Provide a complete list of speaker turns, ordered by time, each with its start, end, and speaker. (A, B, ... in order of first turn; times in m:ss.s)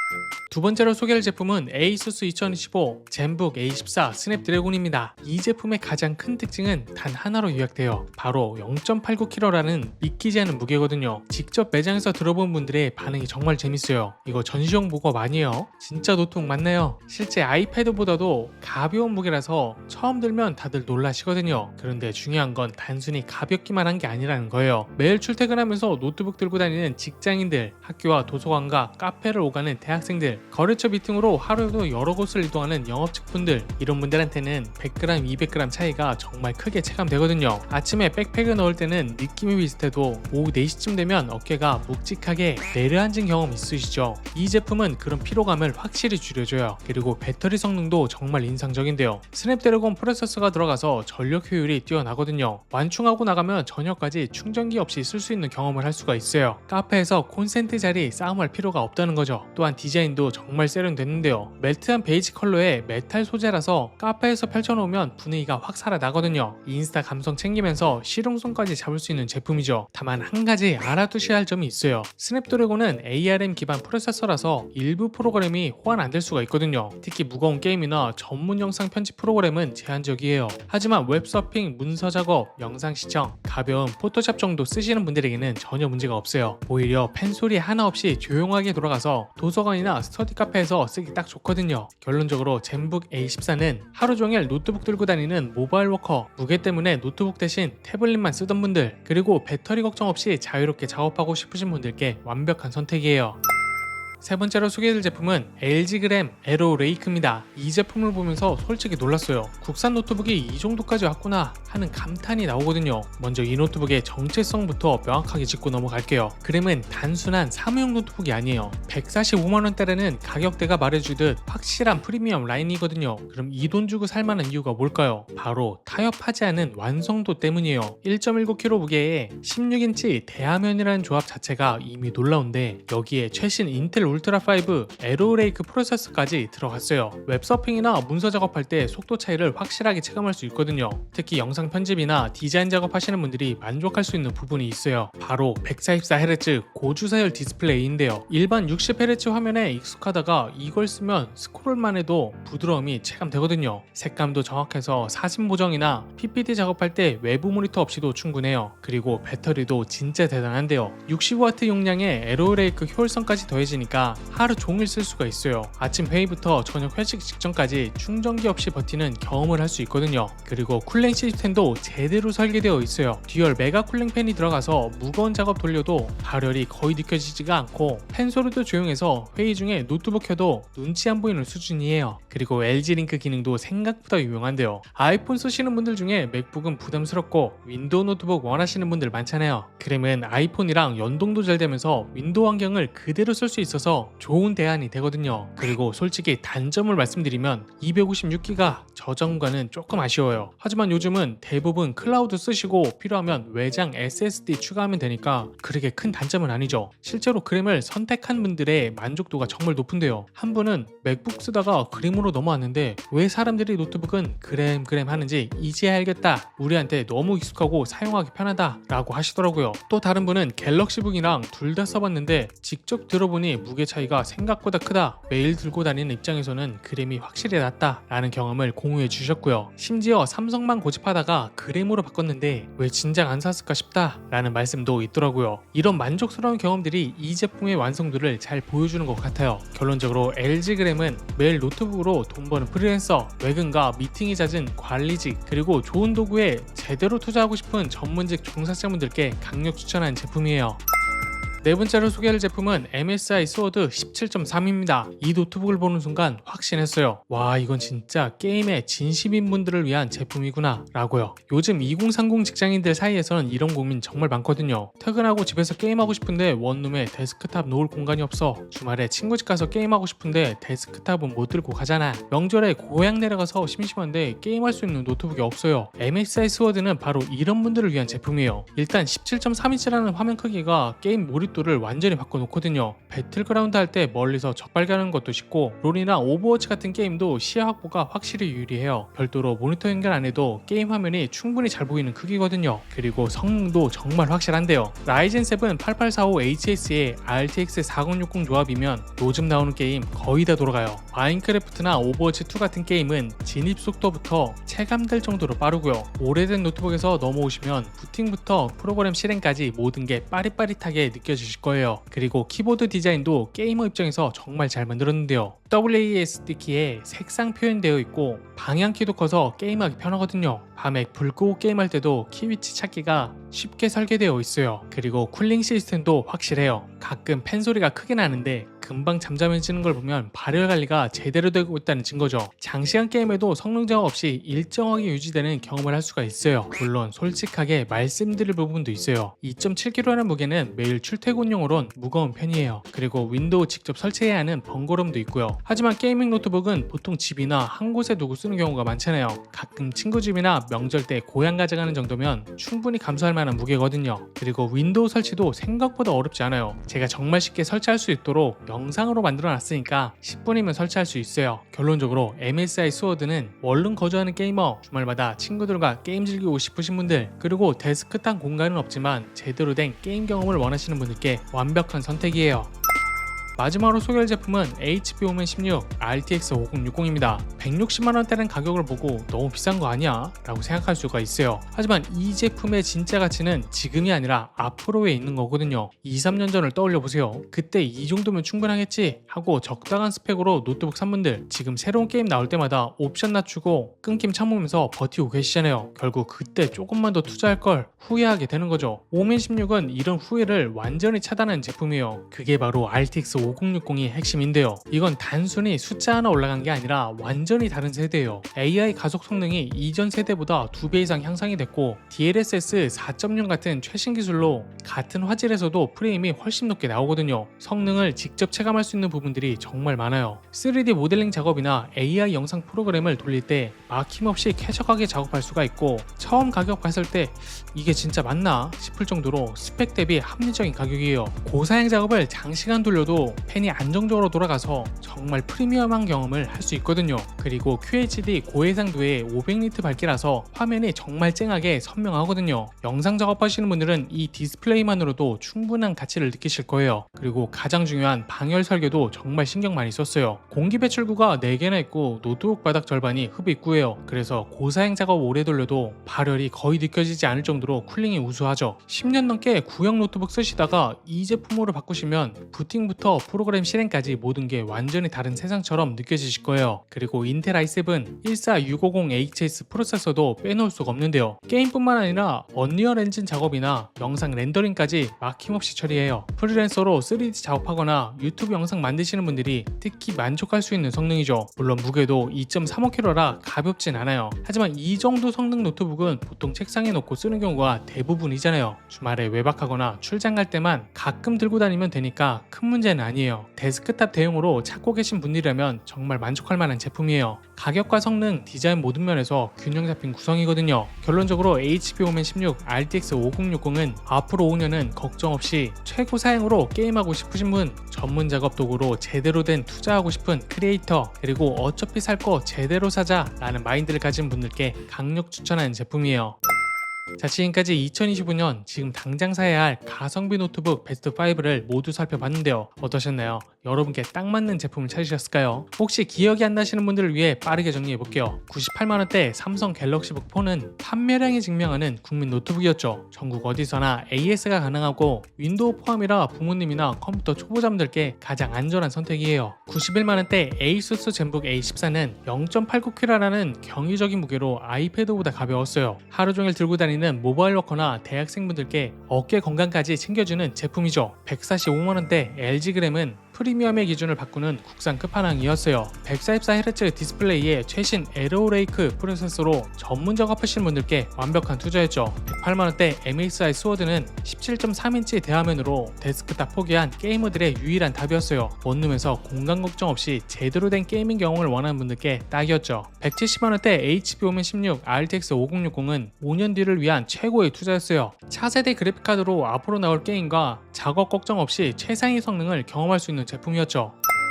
0:00.5-1:43.4 A
1:44.2-4:10.8 A
4:11.6-6:12.7 A
6:13.6-8:36.4 A
8:37.2-9:44.0 A